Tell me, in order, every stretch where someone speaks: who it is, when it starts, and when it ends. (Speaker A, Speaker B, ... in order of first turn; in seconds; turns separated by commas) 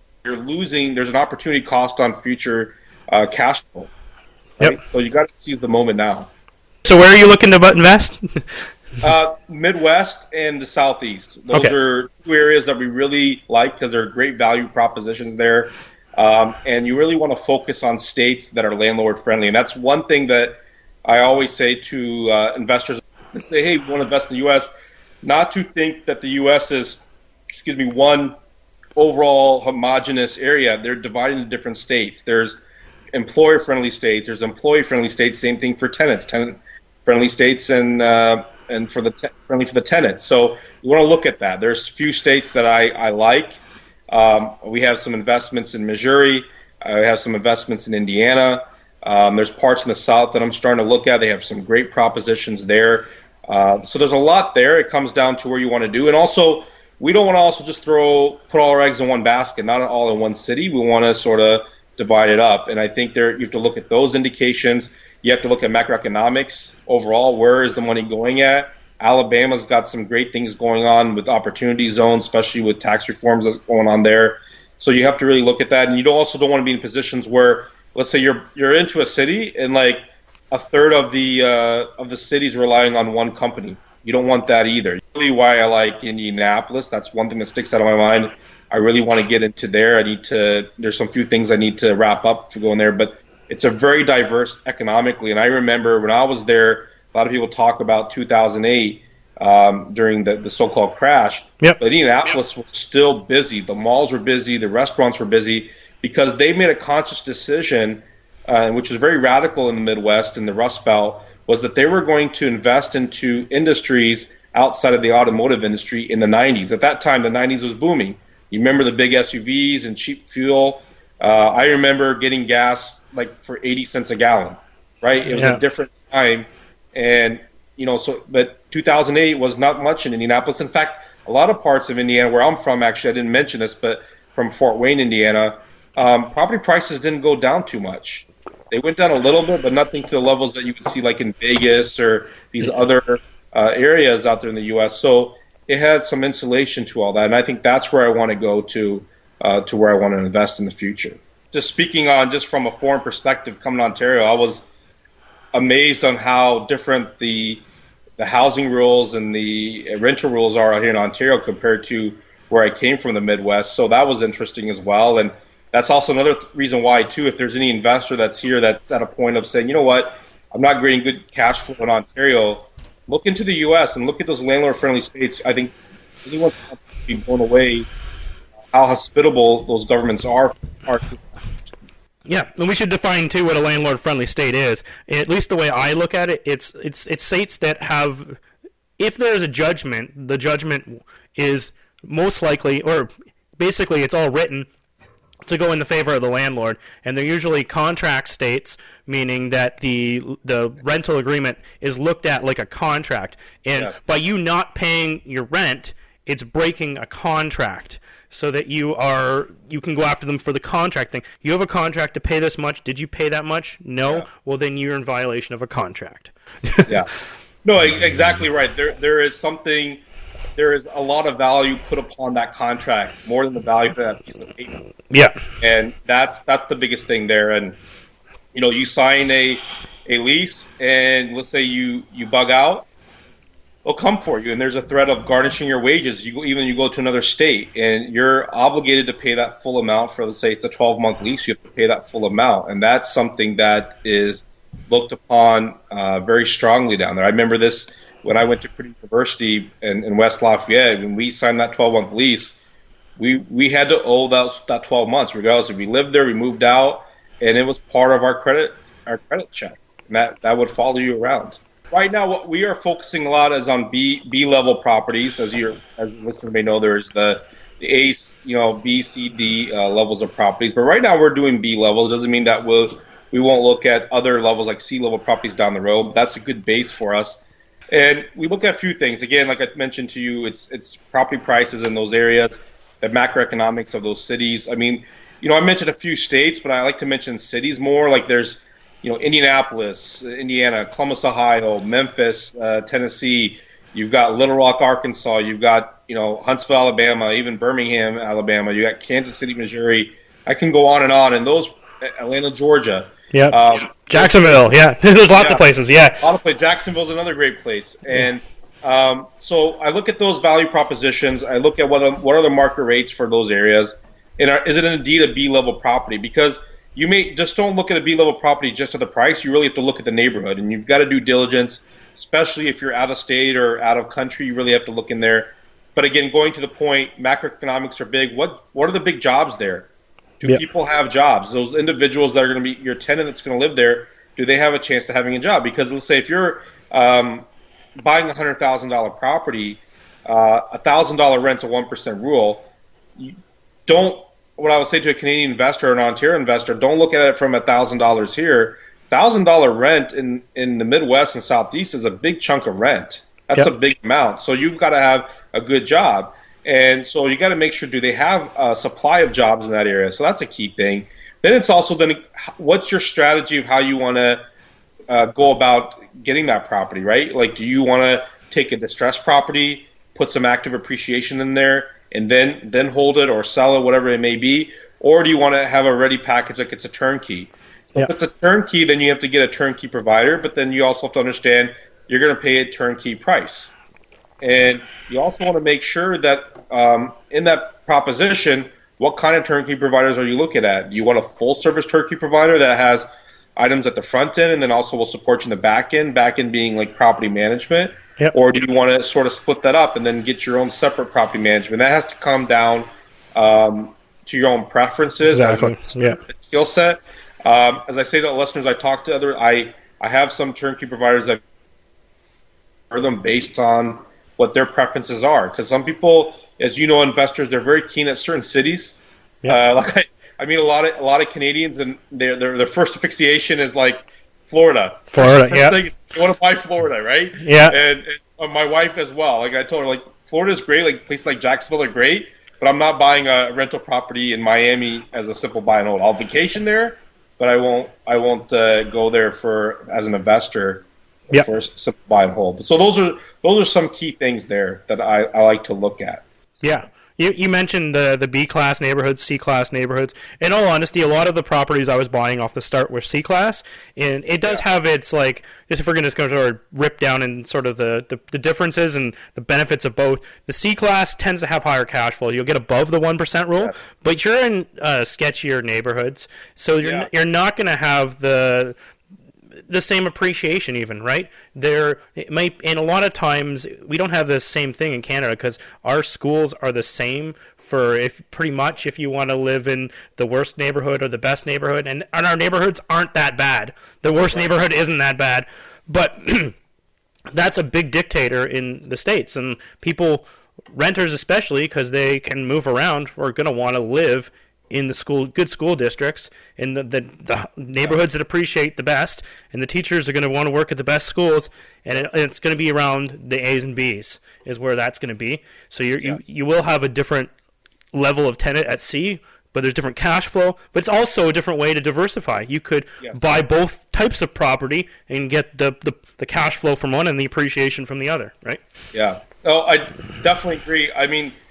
Speaker A: 0.2-3.9, Speaker A: 4.6-6.3, Speaker B: 6.8-8.4, Speaker A: 9.0-24.7, Speaker A: 25.2-27.0, Speaker A: 27.5-28.4, Speaker A: 28.9-32.6, Speaker A: 33.1-154.6, Speaker B: 125.2-125.6, Speaker A: 155.5-157.7, Speaker A: 158.2-177.9, Speaker A: 178.7-181.7, Speaker B: 182.2-188.4, Speaker B: 189.0-194.7, Speaker B: 195.4-217.0, Speaker A: 203.7-204.0, Speaker A: 217.6-220.0, Speaker A: 220.6-224.8, Speaker B: 225.1-225.3, Speaker A: 225.6-227.8, Speaker A: 228.5-232.9, Speaker A: 233.8-252.6, Speaker A: 253.2-304.7, Speaker B: 303.3-306.2, Speaker A: 305.3-305.7, Speaker A: 306.2-329.9, Speaker A: 330.4-337.5, Speaker A: 338.0-343.3, Speaker A: 343.9-364.4, Speaker A: 365.1-383.7, Speaker A: 384.4-411.4, Speaker B: 405.2-406.2, Speaker A: 412.9-446.8, Speaker B: 425.1-425.8, Speaker B: 427.4-427.7, Speaker B: 446.6-468.7, Speaker A: 466.8-467.1, Speaker B: 469.7-486.6, Speaker A: 484.1-484.6, Speaker B: 487.3-507.3, Speaker B: 507.9-518.6, Speaker A: 513.0-513.4, Speaker A: 518.9-521.4